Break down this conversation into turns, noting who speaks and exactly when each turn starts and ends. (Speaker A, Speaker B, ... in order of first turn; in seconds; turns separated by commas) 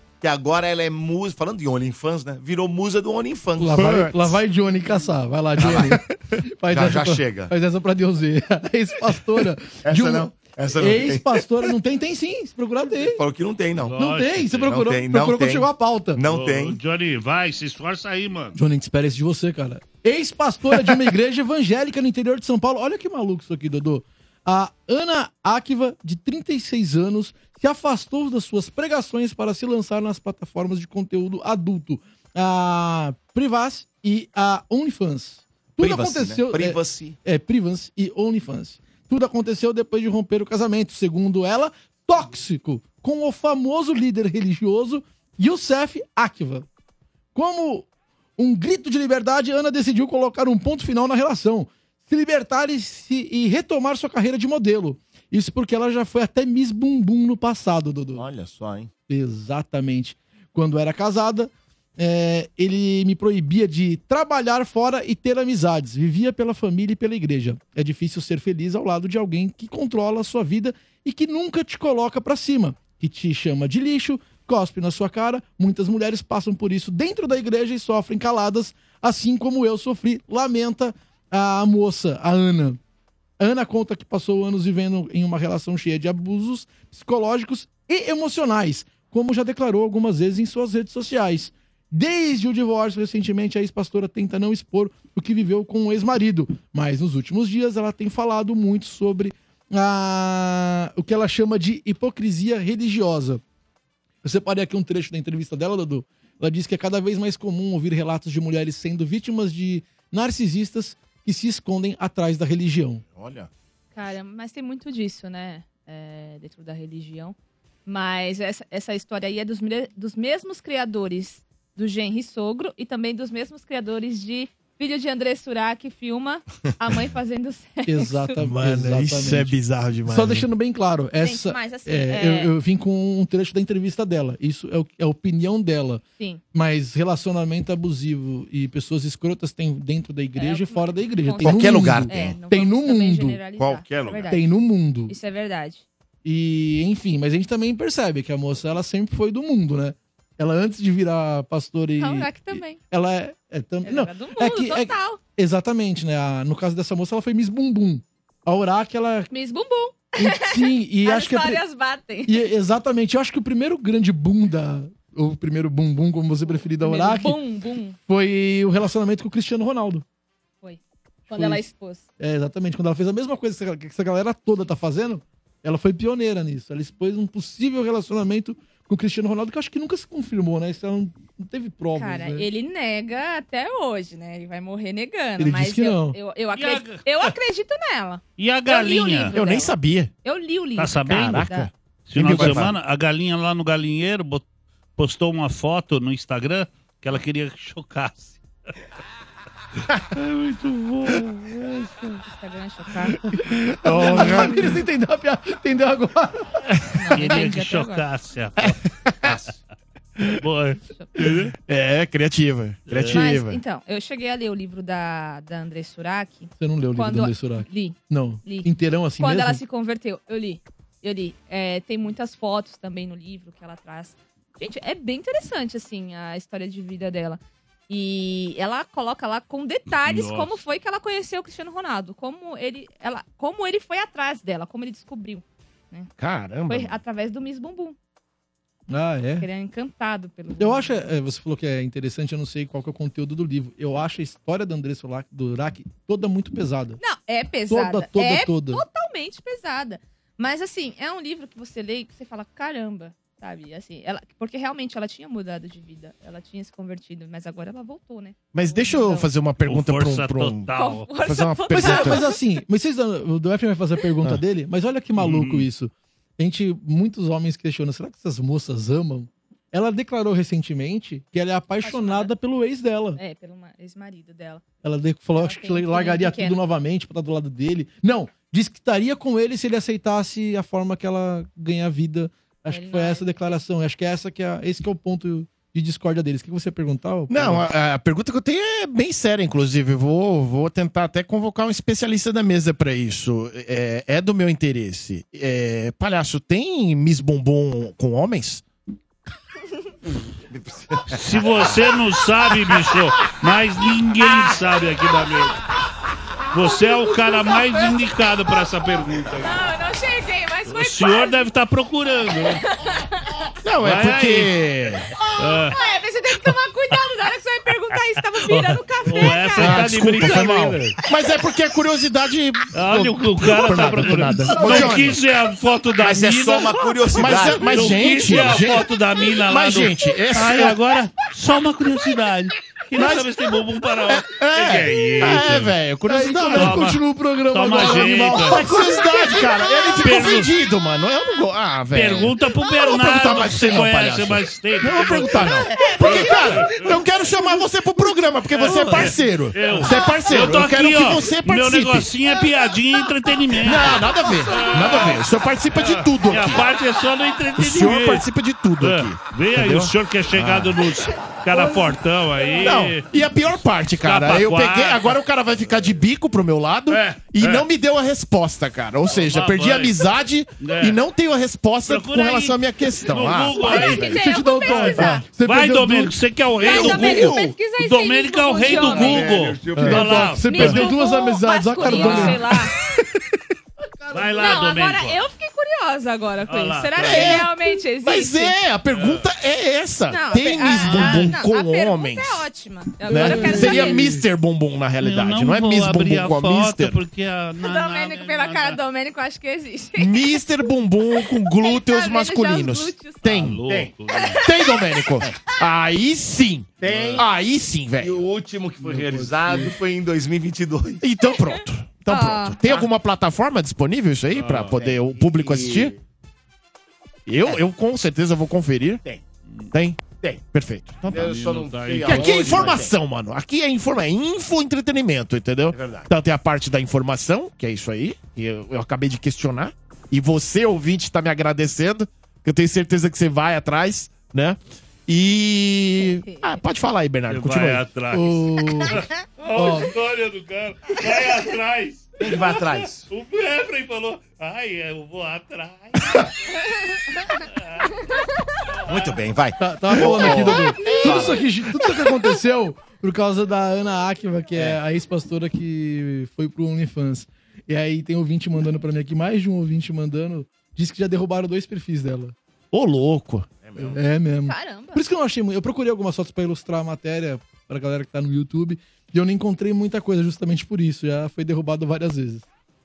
Speaker A: 0.2-3.8, Speaker B: 3.6-6.0, Speaker C: 3.8-4.3, Speaker A: 5.6-6.0, Speaker C: 5.7-6.4, Speaker B: 6.5-13.2, Speaker A: 6.7-7.5, Speaker A: 9.8-11.4, Speaker A: 13.2-13.9, Speaker D: 13.8-14.7, Speaker B: 13.9-16.2, Speaker A: 14.5-16.8, Speaker D: 16.3-18.6, Speaker B: 18.6-46.7, Speaker A: 35.8-37.2, Speaker B: 47.3-58.2, Speaker A: 58.1-58.9, Speaker B: 59.1-82.8, Speaker B: 83.4-103.4, Speaker B: 104.2-113.0, Speaker A: 113.1-113.5, Speaker E: 113.9-117.3, Speaker E: 117.8-128.3, Speaker B: 127.8-136.0, Speaker C: 128.4-130.5, Speaker E: 131.2-132.5, Speaker B: 136.5-143.4, Speaker E: 140.3-144.4, Speaker A: 141.4-142.4, Speaker A: 143.6-144.4, Speaker B: 144.3-145.1, Speaker E: 145.1-145.8, Speaker B: 146.2-159.3, Speaker E: 152.0-152.8, Speaker E: 153.8-155.2, Speaker E: 159.3-162.4, Speaker B: 160.2-161.6, Speaker B: 162.2-167.4, Speaker E: 166.8-168.0, Speaker B: 168.1-170.0, Speaker E: 170.6-172.1, Speaker B: 171.3-171.6, Speaker B: 172.2-182.5, Speaker E: 181.9-191.7, Speaker B: 185.4-186.2, Speaker D: 186.5-187.3, Speaker D: 188.4-189.3, Speaker C: 189.3-190.1, Speaker D: 190.8-191.5, Speaker C: 191.0-192.7, Speaker D: 192.1-194.4, Speaker A: 192.2-192.7, Speaker D: 195.0-198.4, Speaker D: 200.1-202.2, Speaker E: 202.2-203.2, Speaker C: 203.4-204.6, Speaker B: 203.8-206.6, Speaker E: 206.9-208.1, Speaker D: 207.1-208.8, Speaker C: 208.6-209.4, Speaker D: 210.4-211.5, Speaker C: 211.2-213.6, Speaker D: 212.9-213.2, Speaker E: 213.1-236.1, Speaker B: 216.6-219.6, Speaker D: 230.0-230.6, Speaker C: 236.2-237.0, Speaker E: 236.7-237.9, Speaker B: 238.9-239.5, Speaker E: 239.4-241.0, Speaker B: 240.6-247.0, Speaker E: 247.0-259.3, Speaker B: 247.7-248.8, Speaker C: 258.5-262.2, Speaker D: 259.6-261.1, Speaker E: 260.7-262.4, Speaker B: 261.7-273.2, Speaker D: 265.2-265.7, Speaker E: 271.8-272.3, Speaker E: 273.2-274.6, Speaker B: 274.8-287.6, Speaker E: 275.4-276.6, Speaker E: 282.7-283.4, Speaker C: 287.3-298.6, Speaker A: 300.5-301.7, Speaker D: 301.1-305.6, Speaker D: 306.5-309.5, Speaker E: 307.1-307.9, Speaker E: 309.4-311.4, Speaker D: 310.7-312.6, Speaker E: 312.5-313.5, Speaker C: 313.6-315.1, Speaker D: 313.8-314.6, Speaker E: 315.2-319.9, Speaker D: 315.4-315.8, Speaker D: 318.3-320.9, Speaker C: 319.6-325.2, Speaker D: 322.7-335.7, Speaker A: 324.6-325.0, Speaker A: 326.0-328.2, Speaker C: 327.1-330.8, Speaker C: 332.9-333.3, Speaker C: 334.1-336.9, Speaker B: 336.1-338.8, Speaker D: 336.5-337.0, Speaker D: 337.5-338.7, Speaker C: 337.7-352.1, Speaker E: 339.2-339.9, Speaker D: 340.0-340.5, Speaker D: 341.9-347.0, Speaker D: 348.5-358.3, Speaker C: 353.6-356.7, Speaker C: 357.6-360.8, Speaker D: 358.8-363.2, Speaker C: 362.6-374.1, Speaker D: 364.0-365.2, Speaker D: 366.9-367.7, Speaker D: 369.1-370.0, Speaker D: 370.6-371.0, Speaker D: 371.9-380.8, Speaker E: 373.6-375.3, Speaker B: 374.0-376.2, Speaker C: 375.0-375.2, Speaker E: 376.6-379.4, Speaker A: 376.6-377.6, Speaker A: 378.6-380.4, Speaker B: 379.8-382.4, Speaker C: 379.8-380.0, Speaker E: 380.4-382.8, Speaker D: 381.8-382.4, Speaker D: 384.1-385.2, Speaker E: 384.3-388.6, Speaker D: 386.4-387.5, Speaker C: 387.0-392.5, Speaker D: 388.9-389.3, Speaker E: 390.1-394.0, Speaker D: 390.7-391.4, Speaker C: 393.1-397.0, Speaker B: 393.1-394.1, Speaker D: 395.0-398.8, Speaker E: 397.6-400.4, Speaker C: 399.9-403.6, Speaker E: 401.3-403.4, Speaker D: 403.2-404.4, Speaker A: 403.6-403.9, Speaker E: 404.2-404.8, Speaker C: 404.4-408.2, Speaker A: 406.8-407.2, Speaker D: 406.8-407.2, Speaker A: 408.0-411.0, Speaker B: 408.8-409.7, Speaker C: 411.0-415.9, Speaker E: 412.1-412.6, Speaker D: 414.3-414.8, Speaker A: 414.7-416.0, Speaker C: 417.2-419.0, Speaker C: 419.7-421.4, Speaker A: 421.1-422.9, Speaker D: 421.1-422.8, Speaker C: 422.0-437.9, Speaker A: 425.7-426.1, Speaker E: 436.2-436.6, Speaker D: 437.3-446.2, Speaker B: 438.1-439.0, Speaker B: 439.5-439.9, Speaker A: 442.2-443.1, Speaker D: 447.6-447.9, Speaker D: 448.8-449.2, Speaker A: 448.9-451.4, Speaker B: 449.6-462.3, Speaker C: 462.7-463.5, Speaker A: 463.6-464.0, Speaker B: 463.8-472.4, Speaker E: 464.4-465.0